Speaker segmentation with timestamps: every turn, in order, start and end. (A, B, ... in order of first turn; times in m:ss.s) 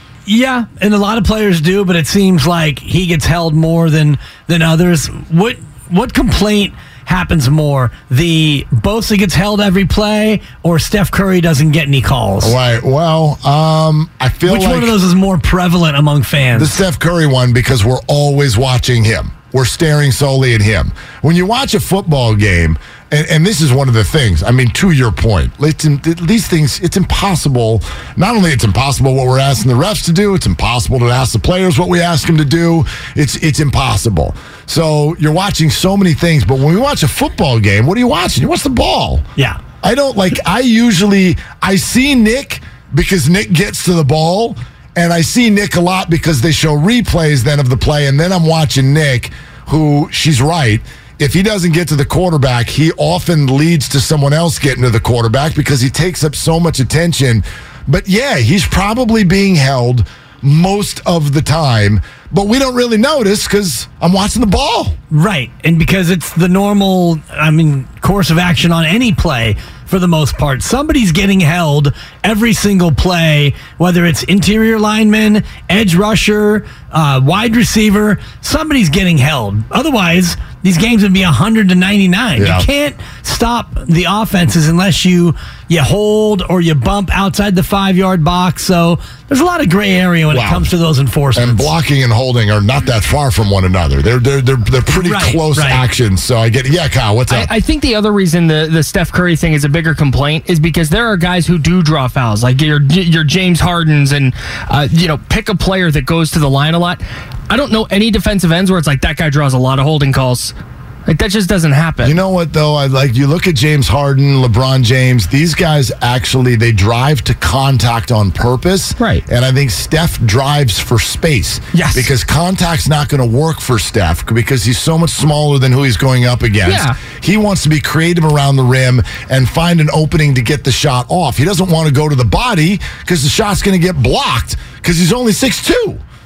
0:00.3-0:12.6 A
0:12.4-0:14.9 B
0:14.4-0:16.8 A
0:16.6-0:39.2 B
0:39.8-1:04.9 B
1:05.1-1:31.7 A
1:22.4-1:22.6 B
1:30.3-1:30.7 B
1:31.3-1:37.5 B
1:34.9-1:35.8 A
1:37.3-1:50.5 C
1:51.1-1:52.2 C
1:52.0-2:16.0 B
1:59.0-1:59.2 C
2:01.7-2:02.1 C
2:06.6-2:07.0 C